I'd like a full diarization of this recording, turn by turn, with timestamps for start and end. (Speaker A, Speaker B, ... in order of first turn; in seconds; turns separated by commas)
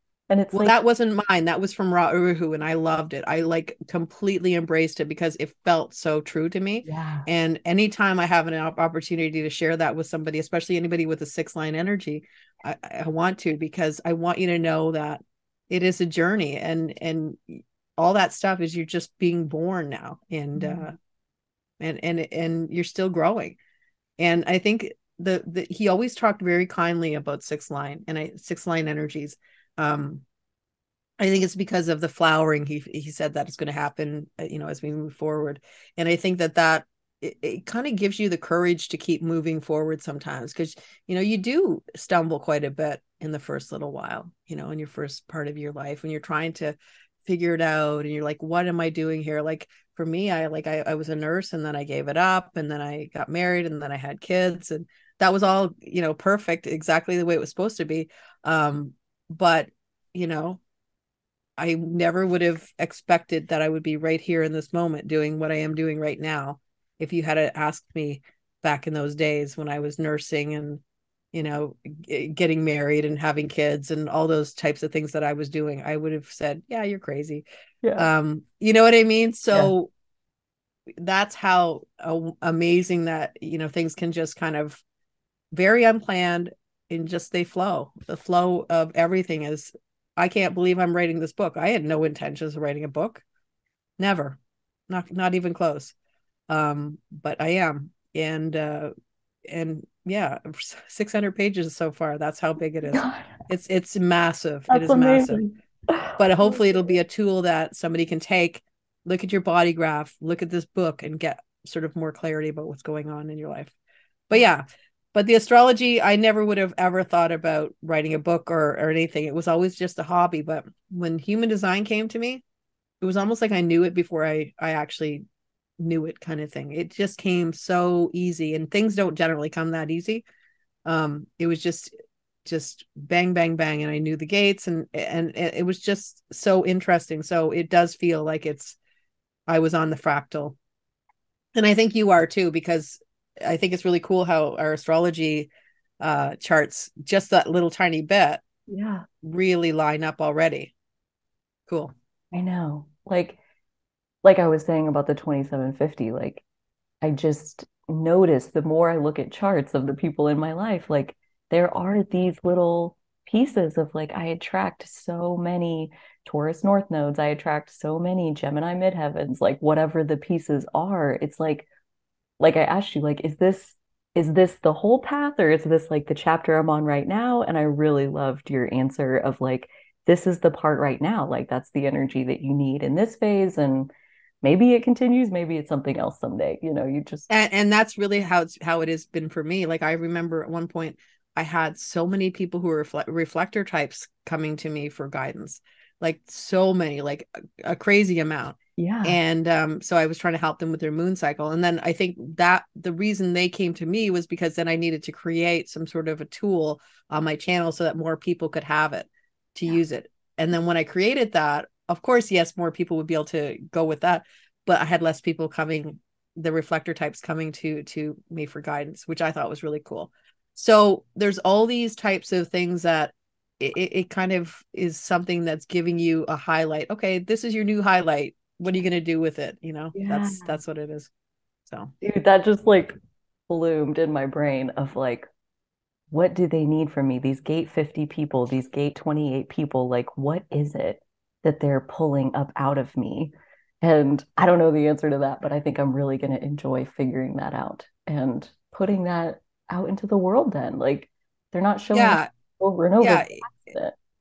Speaker A: 0.3-0.8, Speaker B: 0.5-21.0, Speaker A: 6.8-7.3, Speaker A: 20.6-20.9, Speaker B: 21.8-23.6, Speaker B: 24.2-30.2, Speaker B: 31.2-60.6, Speaker B: 61.6-70.8, Speaker B: 71.3-77.4, Speaker A: 77.8-78.1, Speaker B: 78.0-79.9, Speaker B: 81.0-84.8, Speaker B: 85.5-93.2, Speaker B: 94.0-94.4, Speaker B: 94.9-96.0, Speaker B: 96.5-98.9, Speaker B: 99.5-105.4, Speaker A: 102.9-103.3, Speaker A: 104.7-106.9, Speaker B: 106.2-113.8, Speaker B: 114.3-122.4, Speaker B: 123.0-125.2, Speaker B: 125.8-130.2, Speaker B: 130.9-131.9, Speaker B: 132.4-138.8, Speaker B: 139.5-140.6, Speaker B: 141.6-145.5, Speaker B: 146.0-148.4, Speaker A: 148.7-149.1, Speaker B: 149.2-150.7, Speaker B: 151.7-151.9, Speaker A: 152.3-153.4, Speaker A: 154.2-156.4, Speaker A: 157.0-171.7, Speaker A: 172.4-183.9, Speaker A: 184.4-187.3, Speaker B: 187.3-231.1, Speaker A: 198.8-199.2, Speaker A: 229.9-230.6, Speaker A: 232.0-232.9, Speaker A: 233.5-235.3, Speaker A: 236.1-253.9, Speaker B: 251.9-252.3, Speaker B: 253.0-253.4